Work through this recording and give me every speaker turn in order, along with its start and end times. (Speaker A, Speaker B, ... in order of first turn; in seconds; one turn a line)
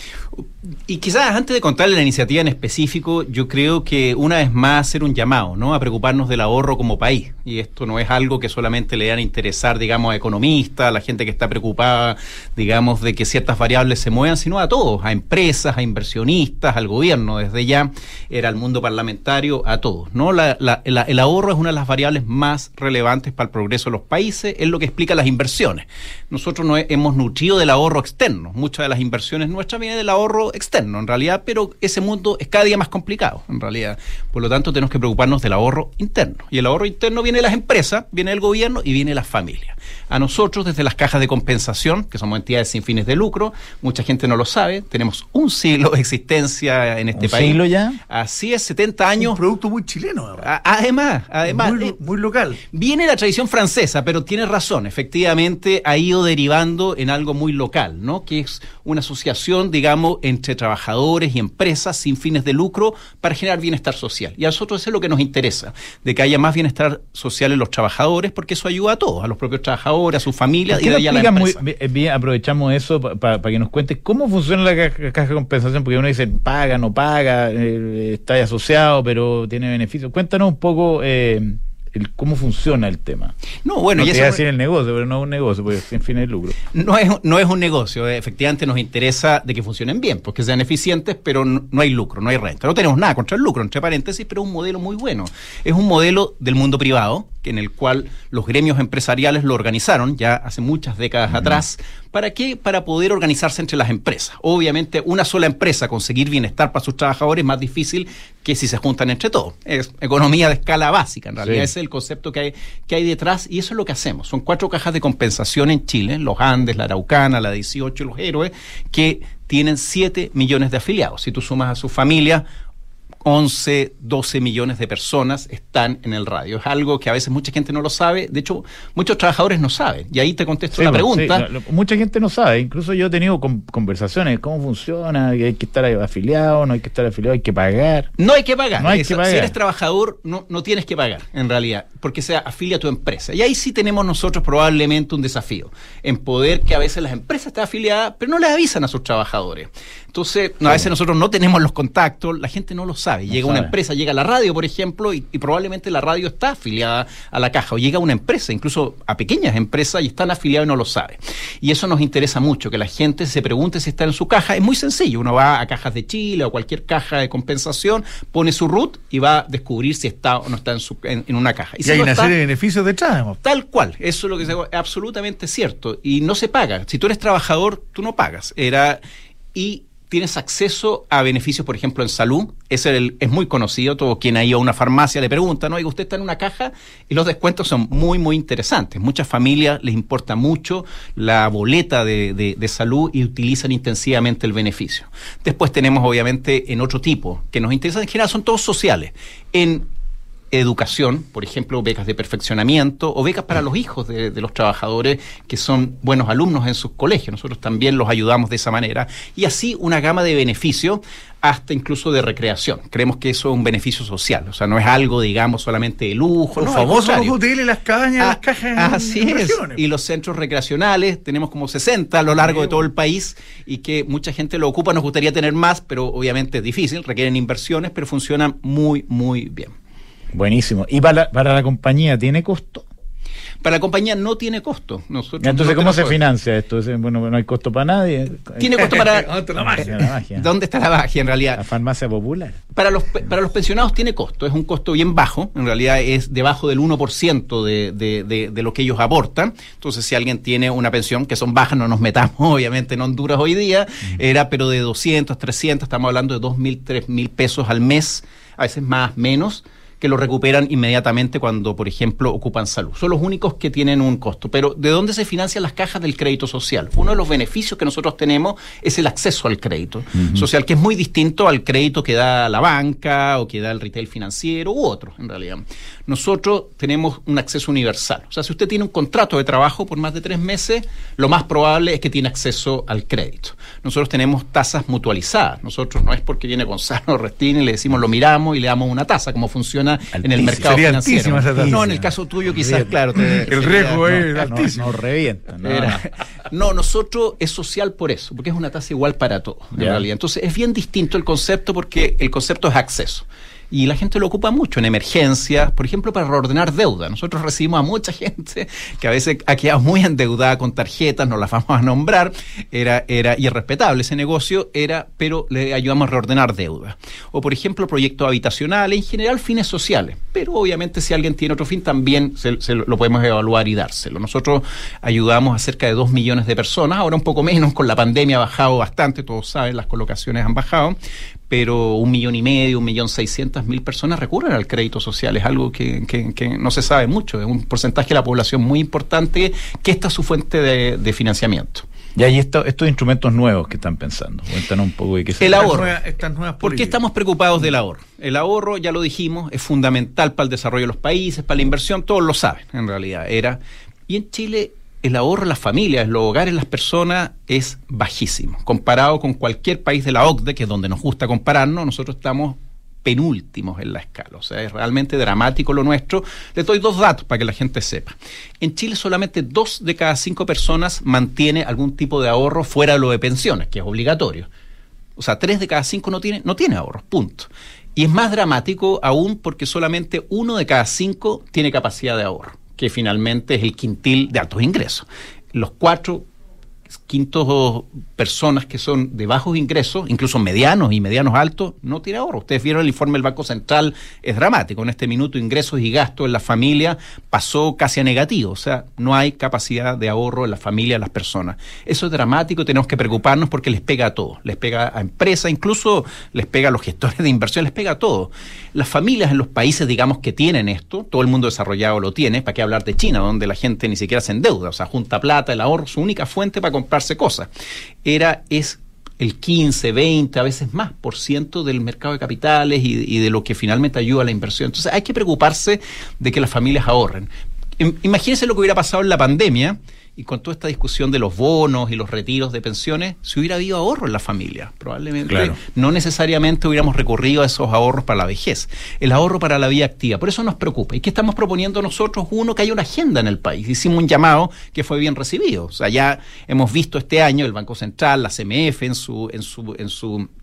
Speaker A: 0.3-49.4
Speaker B: 47.2-48.0
Speaker C: 49.2-50.5
Speaker A: 50.4-52.0
Speaker C: 51.5-52.6
Speaker A: 52.7-71.6
Speaker B: 70.7-83.4
Speaker A: 83.7-84.4
Speaker B: 84.0-86.5
Speaker A: 86.7-122.5
Speaker B: 101.3-101.6
Speaker B: 111.4-111.7
Speaker A: 123.2-131.5
Speaker B: 130.8-138.1
Speaker A: 138.2-172.3
Speaker B: 138.8-139.5
Speaker B: 153.3-153.7
Speaker C: 171.8-173.4
Speaker A: 173.4-179.0
Speaker A: 179.5-199.9
Speaker A: 200.5-217.4
Speaker C: 216.6-219.8
Speaker A: 218.2-229.7
Speaker B: 230.3-232.9
Speaker A: 233.6-236.2
Speaker B: 235.4-239.0
Speaker A: 238.6-241.6
Speaker C: 238.8-240.1
Speaker B: 239.6-240.5
Speaker B: 241.6-242.6
Speaker A: 242.7-294.1
Speaker B: 270.1-270.4
Speaker C: 290.4-291.8
Speaker B: 291.6-293.3
Speaker C: 293.5-294.9
Speaker B: 294.0-296.1
Speaker A: 295.6-331.0
Speaker B: 299.8-300.1
Speaker A: 331.5-341.9
Speaker B: 342.2-345.7
Speaker A: 345.4-345.9
Speaker C: 345.5-347.0
Speaker A: 346.6-374.5
Speaker A: 375.2-386.3
Speaker A: 386.9-417.5
Speaker A: 418.0-450.3
Speaker B: 435.3-435.6